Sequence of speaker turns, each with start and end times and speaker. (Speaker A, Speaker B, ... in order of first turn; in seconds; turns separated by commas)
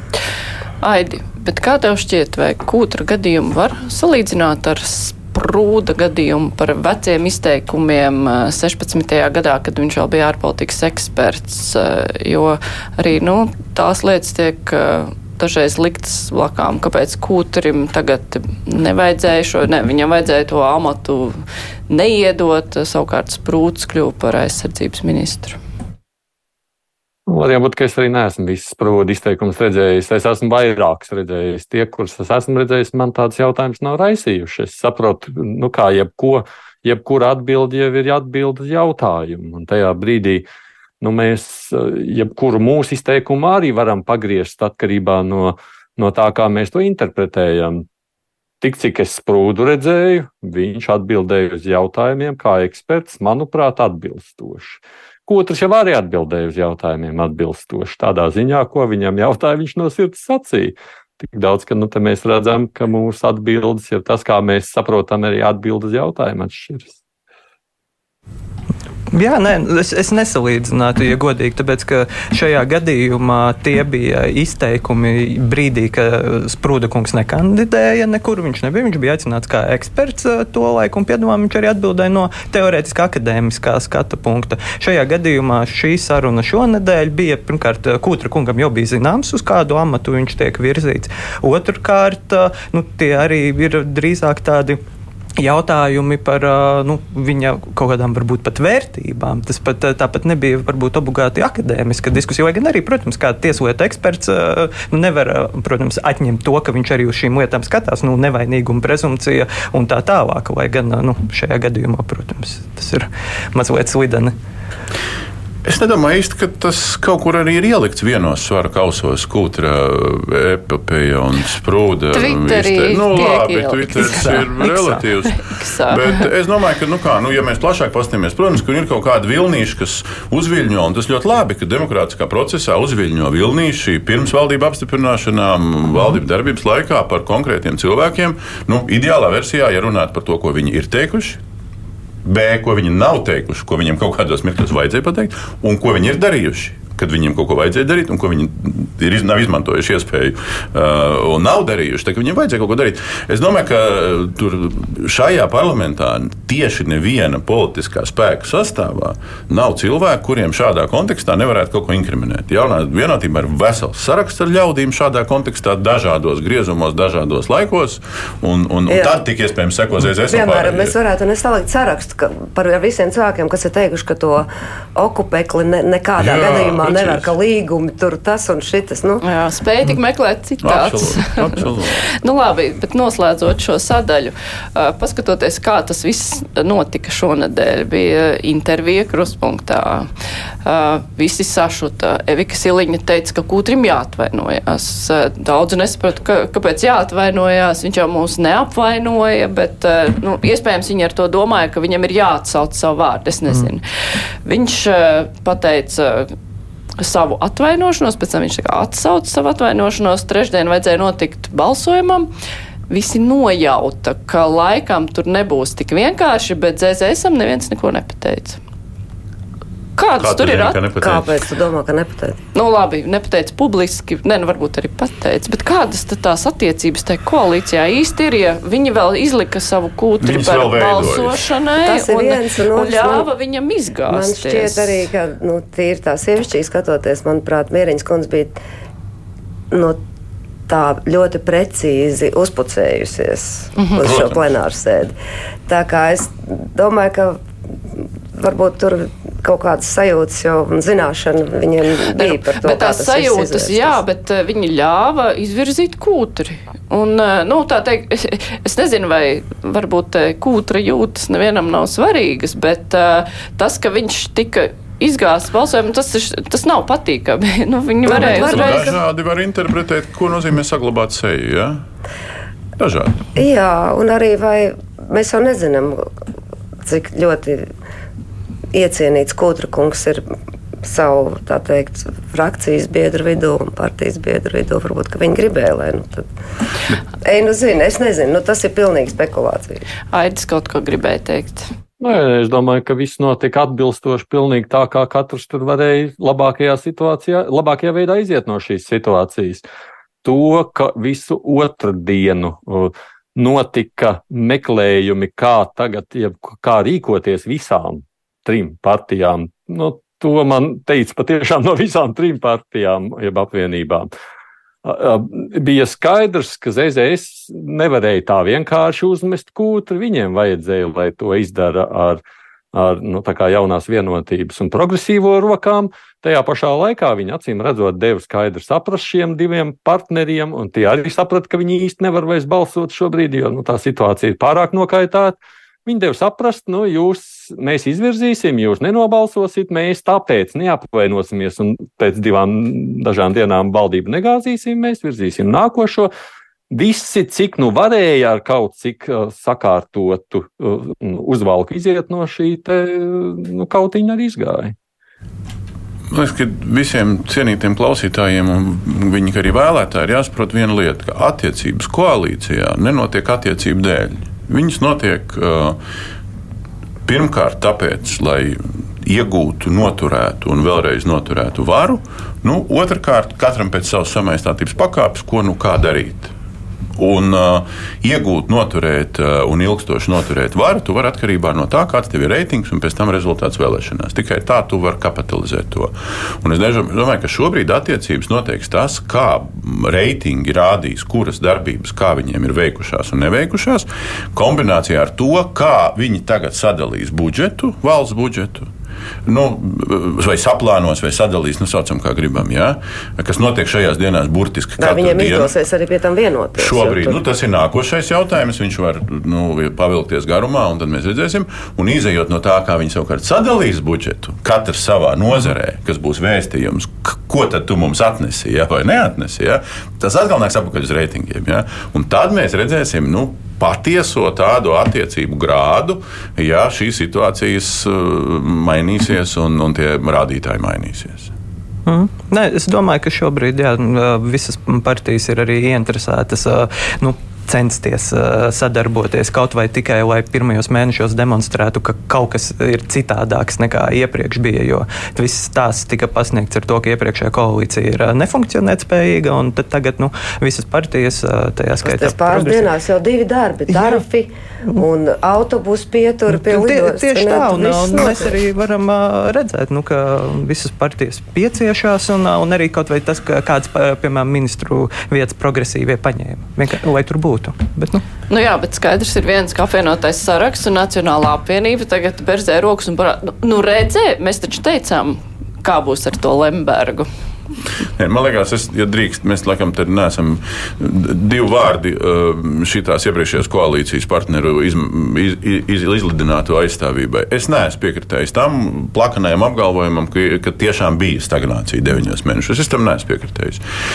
Speaker A: 0.8-21.4, Speaker A: 21.9-25.6, Speaker B: 27.3-40.5, Speaker B: 41.0-47.9, Speaker B: 48.6-66.9, Speaker C: 69.1-94.8, Speaker C: 95.4-114.3, Speaker D: 115.6-141.4, Speaker A: 122.1-126.2, Speaker D: 142.2-170.9, Speaker E: 168.9-169.2, Speaker E: 170.3-179.2, Speaker D: 176.2-177.3, Speaker A: 179.2-190.1, Speaker D: 180.6-182.0, Speaker A: 190.6-203.8, Speaker A: 204.4-206.3, Speaker A: 207.0-212.3, Speaker A: 212.9-218.6, Speaker A: 220.0-220.8, Speaker D: 220.2-221.3, Speaker E: 221.0-222.4, Speaker A: 222.5-235.1, Speaker D: 230.2-231.4, Speaker E: 231.8-233.3, Speaker E: 234.1-238.6, Speaker E: 239.7-240.0, Speaker E: 240.7-245.2, Speaker A: 243.8-244.0, Speaker D: 244.0-244.3, Speaker E: 245.7-247.4, Speaker E: 248.0-254.0, Speaker A: 252.1-268.9, Speaker E: 268.1-269.0, Speaker D: 268.1-271.8, Speaker D: 272.8-273.3, Speaker E: 273.3-276.1, Speaker E: 276.8-277.7, Speaker E: 278.7-280.2, Speaker E: 280.8-286.3, Speaker E: 287.2-289.8, Speaker A: 290.1-291.7, Speaker B: 292.0-299.6, Speaker B: 300.2-314.1, Speaker B: 314.8-322.2, Speaker B: 322.7-346.1, Speaker B: 346.7-354.7, Speaker D: 356.1-365.8, Speaker D: 367.0-376.3, Speaker D: 377.0-398.7, Speaker D: 399.2-405.5, Speaker E: 404.8-407.2, Speaker D: 406.6-431.3, Speaker C: 431.9-452.7, Speaker E: 451.8-458.3, Speaker C: 453.7-454.0, Speaker C: 456.3-468.0, Speaker A: 468.3-477.1, Speaker D: 478.0-493.6